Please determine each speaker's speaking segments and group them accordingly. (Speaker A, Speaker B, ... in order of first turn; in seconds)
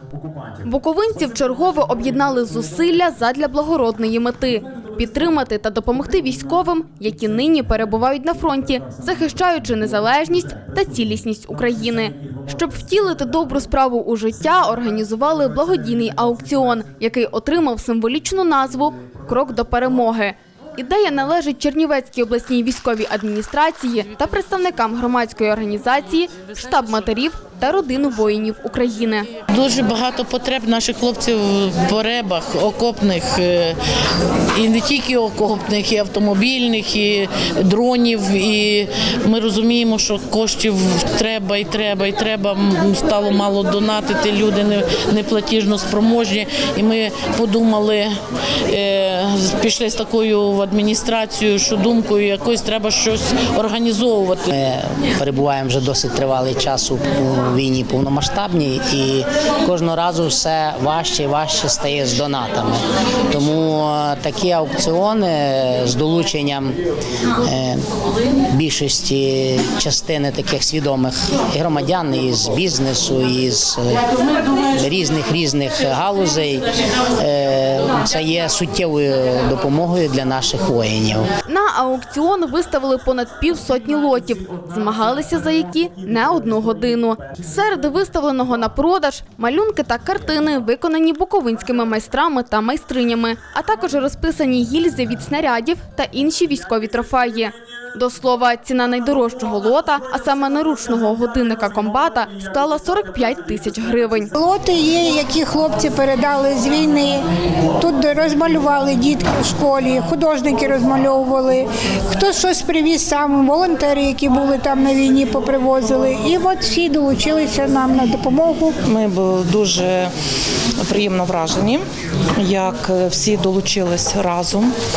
Speaker A: 0.6-29.3, 81.5-104.3
Speaker B: 29.5-33.8, 34.3-54.5
Speaker C: 54.5-62.8, 63.3-66.8, 67.4-67.8, 68.5-74.0, 74.8-76.6, 77.2-81.3
Speaker D: 104.3-107.2, 107.8-118.8
Speaker E: 118.9-120.1, 120.8-121.8, 122.4-124.7